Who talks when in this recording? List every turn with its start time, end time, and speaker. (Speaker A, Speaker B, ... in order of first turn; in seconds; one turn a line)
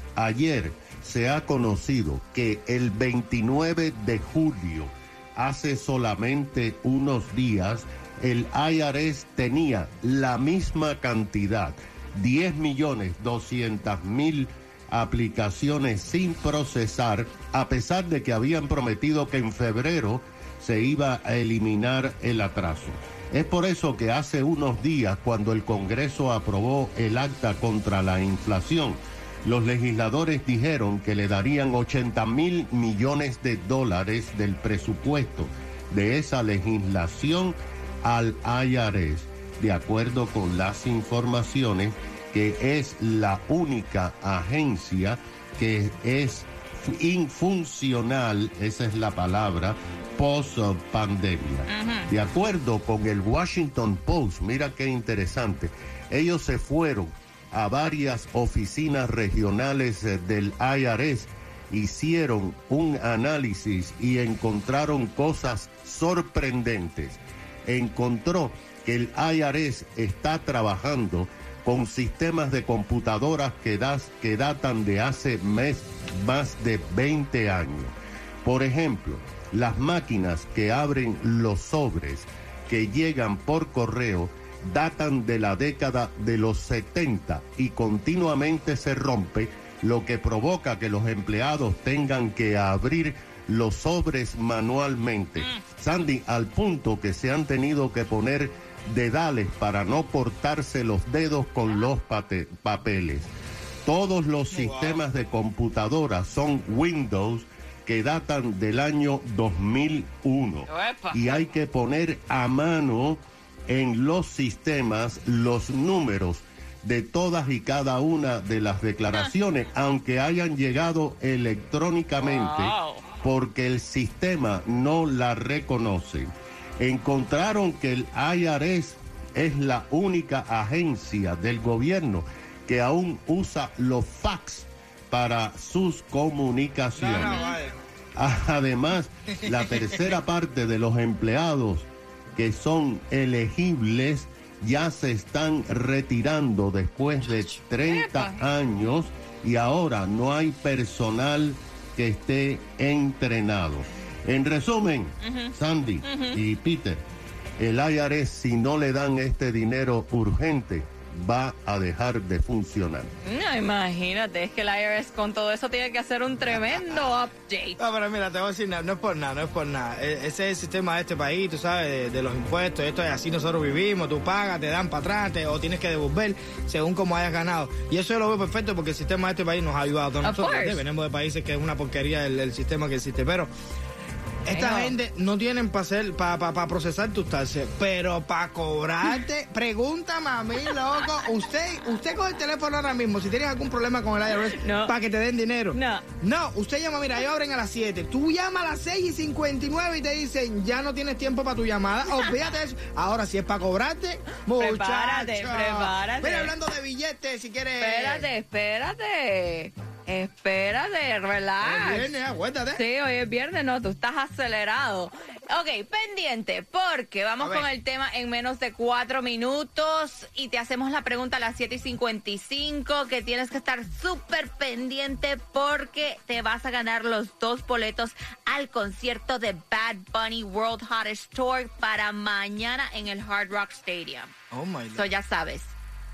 Speaker A: 0.1-77.9
Speaker B: 51.7-52.1
Speaker A: 78.4-103.3
Speaker A: 103.8-137.4
Speaker C: 104.5-105.0
Speaker B: 110.7-111.4
Speaker B: 122.2-123.0
Speaker C: 137.0-137.8
Speaker B: 137.2-137.6
Speaker A: 138.2-157.0
Speaker B: 147.8-148.4
Speaker B: 155.2-156.4
Speaker A: 157.6-163.1
Speaker B: 163.2-167.8
Speaker C: 167.8-183.5
Speaker B: 180.2-180.8
Speaker C: 184.5-208.2
Speaker B: 184.5-184.9
Speaker B: 194.3-194.9
Speaker B: 195.7-196.0
Speaker B: 202.1-202.5
Speaker B: 204.5-206.5
Speaker B: 207.8-212.2
Speaker C: 211.6-212.8
Speaker B: 212.7-234.3
Speaker C: 217.4-217.7
Speaker C: 234.5-235.1
Speaker B: 234.9-235.7